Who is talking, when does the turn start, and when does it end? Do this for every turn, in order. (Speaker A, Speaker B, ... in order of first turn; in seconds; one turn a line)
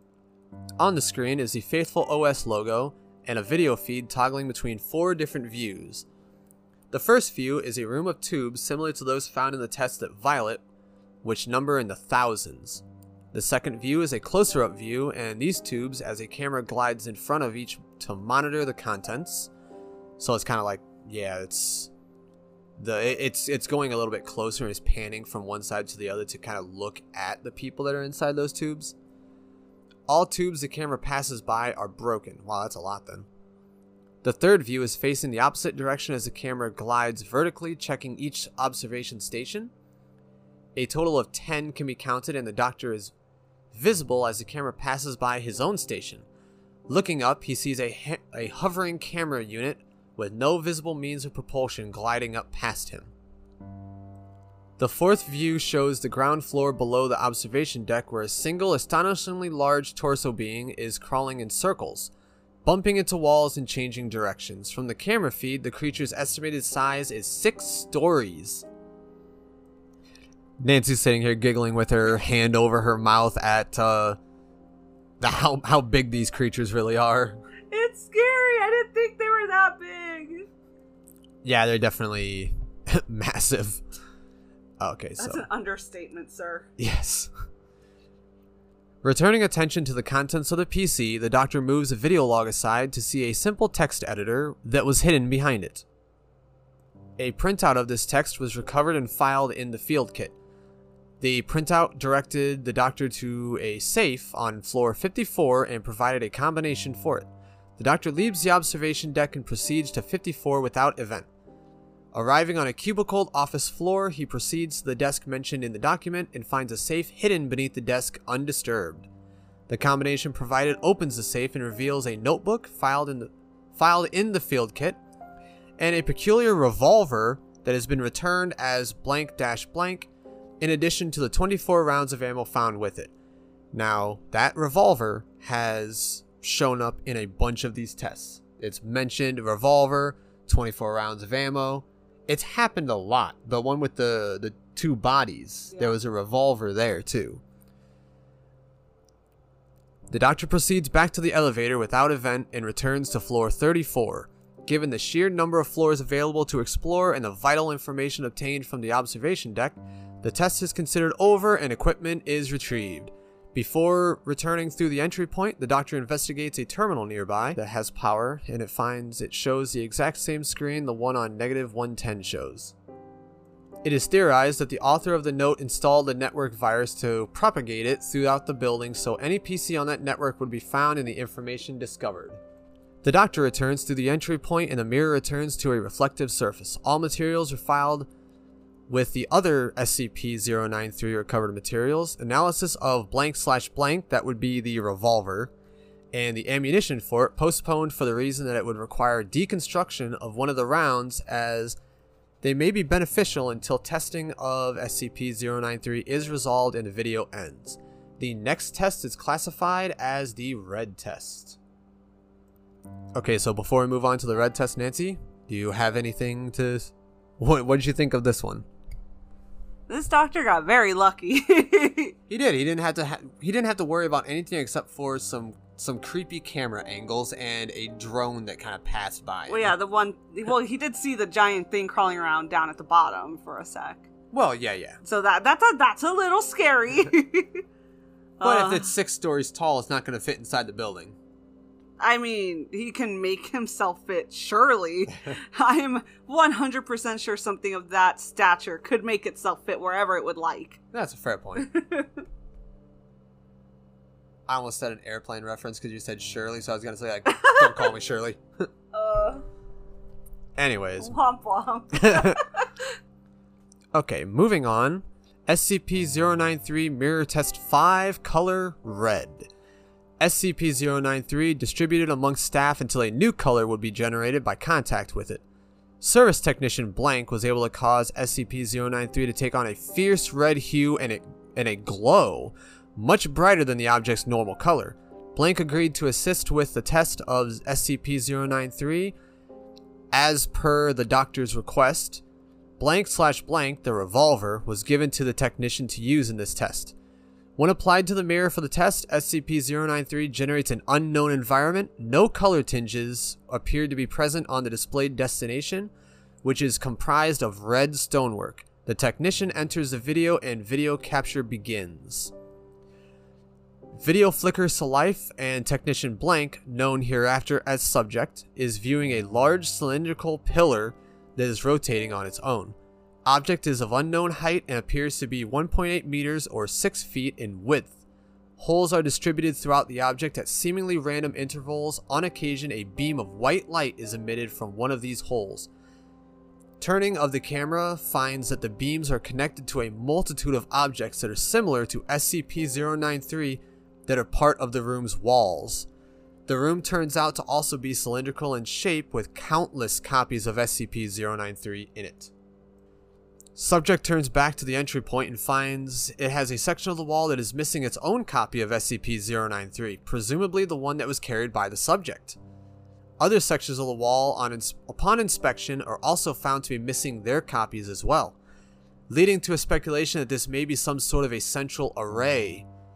Speaker A: 0.8-6.0
Speaker A: 6.9-10.6
Speaker A: 11.2-19.5
Speaker A: 20.2-21.9
Speaker A: 22.8-28.9
Speaker A: 30.1-33.3
Speaker A: 34.2-39.7
Speaker A: 40.8-43.1
Speaker A: 43.7-46.2
Speaker A: 46.9-53.1
Speaker A: 54.8-62.1
Speaker A: 62.6-68.7
Speaker A: 70.6-74.2
Speaker A: 75.2-77.4
Speaker B: 77.7-80.5
Speaker A: 81.4-83.8
Speaker A: 84.8-85.4
Speaker B: 85.2-86.7
Speaker A: 86.8-87.3
Speaker A: 89.0-95.8
Speaker A: 97.2-100.3
Speaker A: 101.2-111.3
Speaker A: 112.1-119.1
Speaker A: 119.7-125.0
Speaker A: 125.8-133.1
Speaker A: 133.7-147.4
Speaker A: 150.1-172.7
Speaker A: 173.8-182.4
Speaker A: 183.0-188.1
Speaker A: 188.9-195.5
Speaker A: 196.1-201.8
Speaker A: 202.4-211.6
Speaker A: 213.1-218.7
Speaker B: 219.9-222.1
Speaker A: 222.3-229.7
Speaker B: 229.5-234.1
Speaker A: 234.3-235.0
Speaker B: 235.0-237.6
Speaker B: 238.4-238.9
Speaker A: 238.4-241.1
Speaker B: 242.0-250.8
Speaker A: 250.9-251.7
Speaker B: 251.6-252.1
Speaker A: 254.5-258.4
Speaker B: 257.3-257.8
Speaker B: 258.9-259.4
Speaker A: 260.6-261.1
Speaker B: 261.0-262.9
Speaker A: 261.9-262.4
Speaker A: 263.9-269.5
Speaker A: 270.2-275.4
Speaker A: 276.0-289.1
Speaker A: 290.1-292.2
Speaker A: 292.8-296.9
Speaker A: 297.6-305.9
Speaker A: 306.4-312.3
Speaker A: 314.0-322.7
Speaker A: 323.3-328.0
Speaker A: 328.6-335.7
Speaker A: 336.8-345.9
Speaker A: 346.5-352.3
Speaker A: 353.6-362.4
Speaker A: 363.2-368.4
Speaker A: 369.1-372.7